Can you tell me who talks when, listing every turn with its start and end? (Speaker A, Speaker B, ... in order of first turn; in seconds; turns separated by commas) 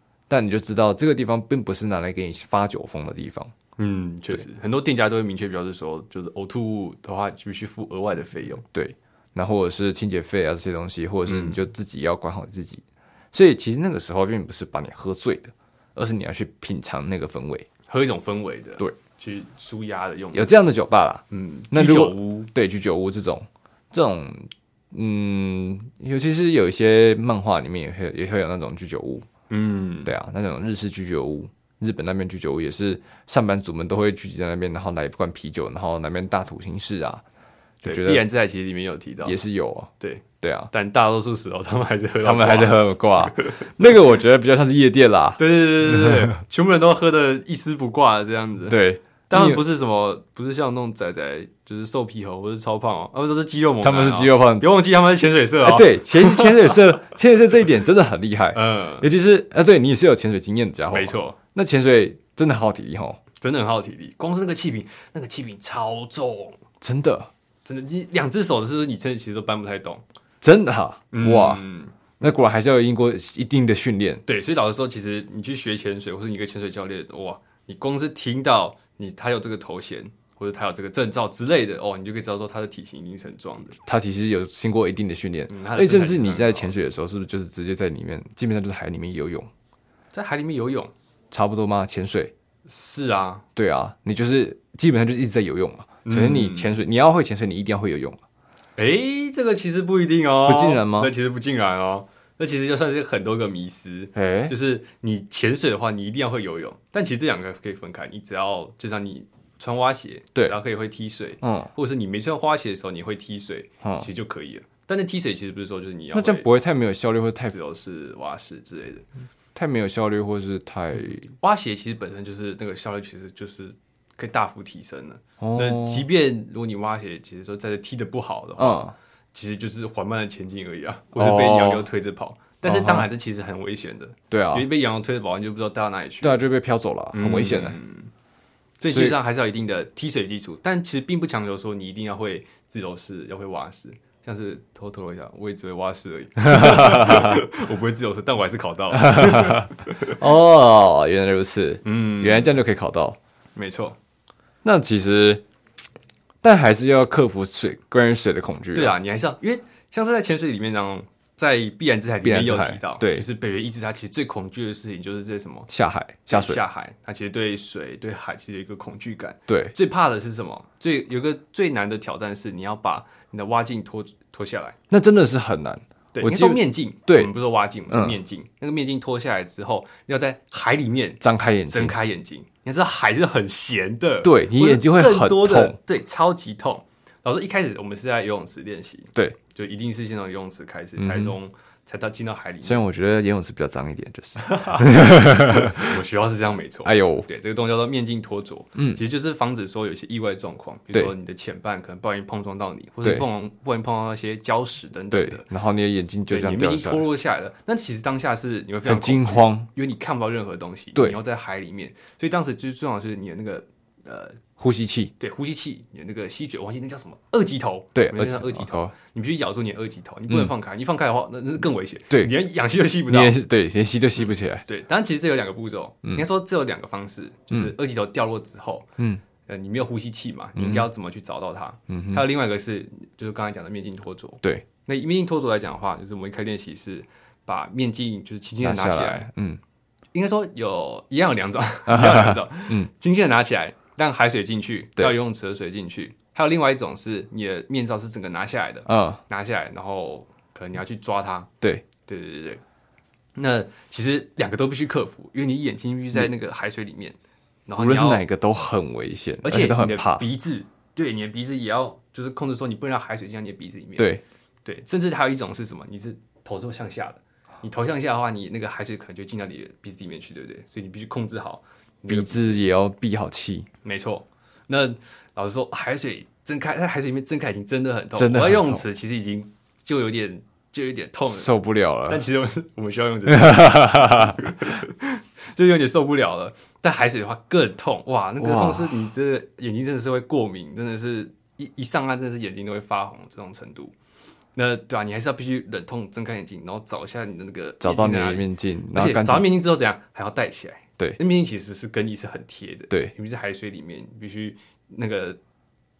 Speaker A: 0.3-3.5, Speaker B: 3.8-8.6, Speaker A: 8.7-17.7, Speaker B: 11.3-11.6, Speaker B: 17.9-20.5, Speaker A: 20.3-29.3, Speaker B: 21.3-22.5, Speaker B: 29.5-30.1, Speaker A: 30.1-37.2, Speaker A: 37.8-38.2, Speaker B: 37.8-39.4, Speaker A: 39.2-39.9, Speaker B: 40.0-43.7, Speaker A: 40.4-40.7, Speaker A: 42.2-46.2, Speaker B: 45.4-56.8, Speaker A: 48.7-49.6, Speaker A: 53.8-54.7, Speaker A: 55.6-63.2, Speaker B: 58.5-59.1, Speaker B: 60.9-61.4, Speaker B: 63.4-66.6, Speaker A: 66.8-67.3, Speaker B: 67.6-70.0, Speaker A: 70.4-71.6, Speaker B: 71.1-72.0, Speaker A: 72.2-74.2, Speaker B: 74.2-83.8, Speaker A: 83.8-89.5, Speaker B: 85.5-86.7, Speaker B: 90.1-90.9, Speaker A: 91.3-92.3, Speaker B: 92.7-93.4, Speaker A: 93.5-98.2, Speaker B: 96.0-96.7, Speaker B: 98.8-116.5, Speaker A: 100.5-101.1, Speaker A: 104.1-104.5, Speaker A: 111.4-111.7, Speaker A: 116.1-117.5, Speaker B: 117.5-119.0, Speaker A: 119.5-121.3, Speaker B: 121.4-136.4, Speaker A: 125.4-126.0, Speaker A: 128.6-128.9, Speaker A: 131.2-131.8, Speaker A: 132.6-133.1, Speaker A: 134.3-134.7, Speaker A: 136.2-137.8, Speaker B: 137.1-138.1, Speaker B: 138.8-150.1, Speaker A: 138.9-139.2, Speaker A: 146.5-147.4, Speaker A: 149.0-153.2, Speaker B: 151.8-152.5, Speaker B: 153.6-154.0, Speaker A: 154.6-155.4, Speaker A: 156.4-158.9, Speaker B: 158.7-165.7, Speaker A: 162.2-163.2, Speaker A: 165.7-166.6, Speaker B: 166.3-174.8, Speaker A: 169.5-169.7, Speaker A: 174.9-177.3, Speaker B: 176.1-192.8, Speaker A: 177.9-178.2, Speaker A: 181.2-181.9, Speaker A: 184.2-185.8, Speaker A: 191.0-191.3, Speaker A: 192.6-195.9, Speaker B: 194.4-205.4, Speaker A: 196.8-197.3, Speaker A: 198.8-199.0, Speaker A: 205.1-207.0, Speaker B: 206.3-214.4, Speaker A: 208.8-209.7, Speaker A: 214.6-215.1, Speaker B: 215.2-223.3, Speaker A: 217.9-218.9, Speaker A: 223.1-224.6, Speaker B: 224.2-228.9, Speaker B: 229.4-239.3, Speaker A: 230.6-230.9, Speaker A: 231.9-232.2, Speaker A: 238.6-239.6, Speaker B: 240.1-251.5, Speaker A: 241.9-242.9, Speaker A: 248.9-249.2, Speaker B: 252.1-252.6, Speaker B: 253.3-258.2, Speaker A: 257.8-260.2, Speaker B: 259.4-264.1, Speaker A: 264.0-264.2, Speaker B: 264.6-272.4, Speaker A: 272.1-273.7, Speaker B: 273.8-281.5, Speaker A: 278.1-278.8, Speaker A: 281.3-282.2, Speaker B: 282.1-293.9, Speaker A: 283.3-284.4, Speaker A: 288.4-288.9, Speaker B: 294.5-305.4, Speaker A: 297.8-299.5